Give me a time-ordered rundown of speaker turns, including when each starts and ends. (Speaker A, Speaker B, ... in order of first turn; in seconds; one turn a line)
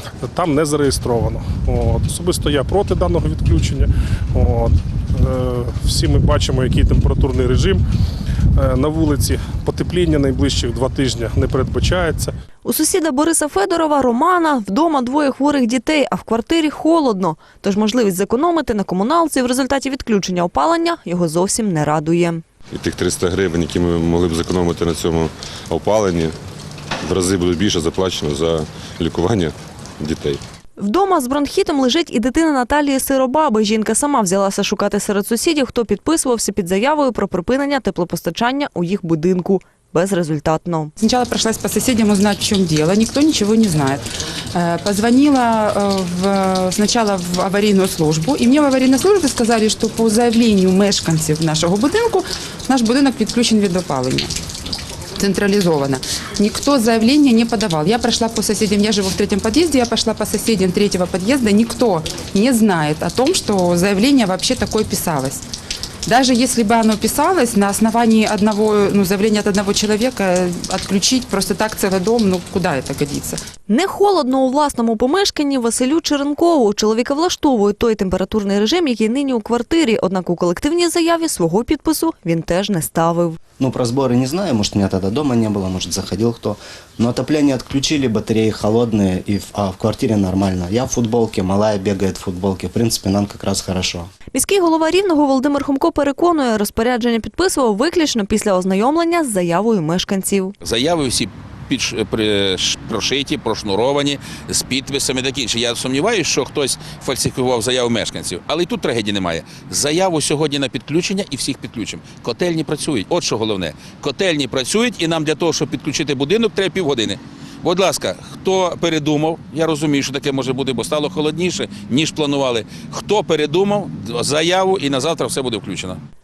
Speaker A: 0.2-7.8
Speaker A: 8.6-12.3
Speaker B: 12.6-22.4
Speaker C: 22.7-26.4
Speaker C: 27.0-30.4
Speaker B: 30.8-40.9
Speaker D: 41.0-54.3
Speaker D: 55.2-65.4
Speaker D: 66.0-73.4
Speaker B: 73.7-83.4
Speaker E: 83.6-94.1
Speaker B: 94.3-100.5
Speaker F: 100.6-125.9